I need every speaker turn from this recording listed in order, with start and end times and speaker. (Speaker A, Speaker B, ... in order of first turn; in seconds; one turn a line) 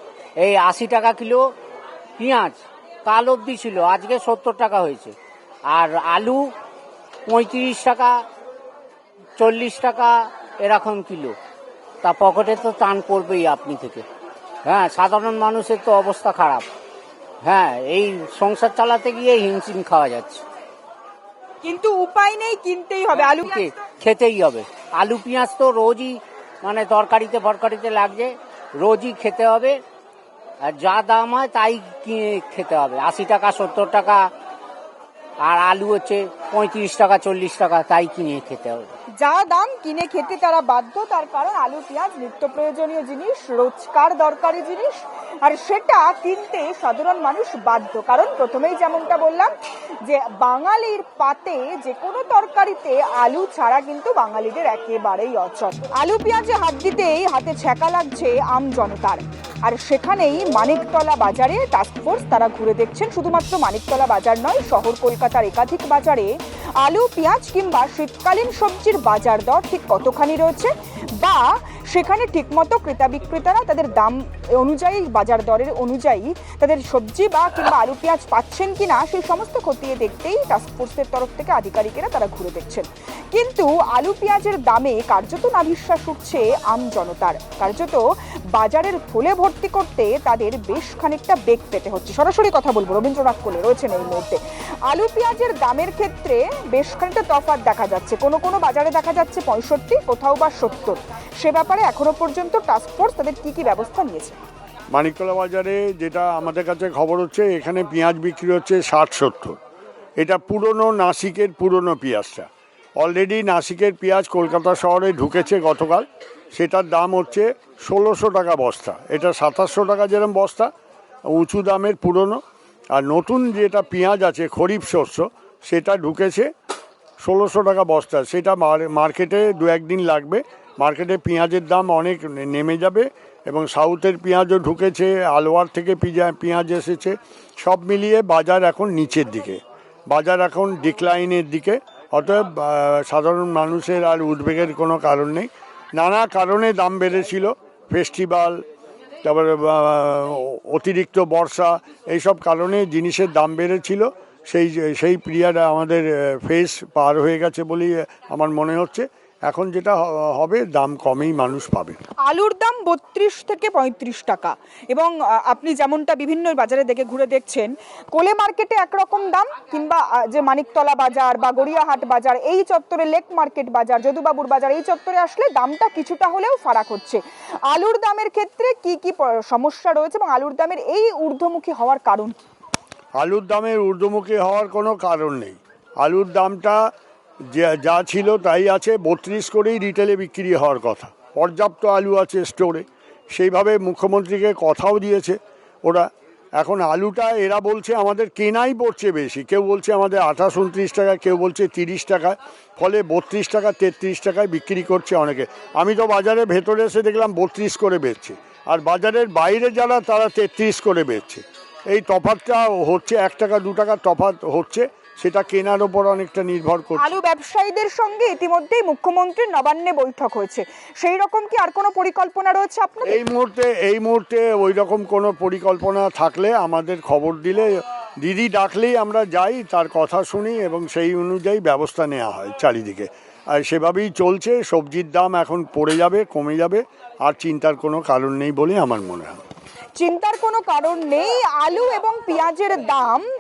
Speaker A: 0.4-1.4
Speaker A: 2.2-5.1
Speaker A: 5.7-6.4
Speaker A: 7.3-8.1
Speaker A: 9.4-11.3
Speaker A: 12.0-14.0
Speaker A: 14.7-16.7
Speaker A: 17.4-20.4
Speaker B: 21.6-23.8
Speaker A: 23.3-29.8
Speaker A: 30.7-34.2
Speaker A: 35.5-38.9
Speaker B: 39.2-49.5
Speaker B: 50.0-66.3
Speaker B: 66.8-88.0
Speaker B: 88.5-104.4
Speaker C: 104.9-109.6
Speaker C: 110.2-112.5
Speaker C: 113.0-120.7
Speaker C: 121.3-122.4
Speaker C: 122.9-126.5
Speaker C: 127.2-148.6
Speaker C: 149.2-162.0
Speaker B: 162.2-182.4
Speaker C: 183.2-186.8
Speaker C: 187.5-217.1
Speaker B: 217.0-223.2
Speaker C: 223.1-239.4
Speaker B: 240.0-243.2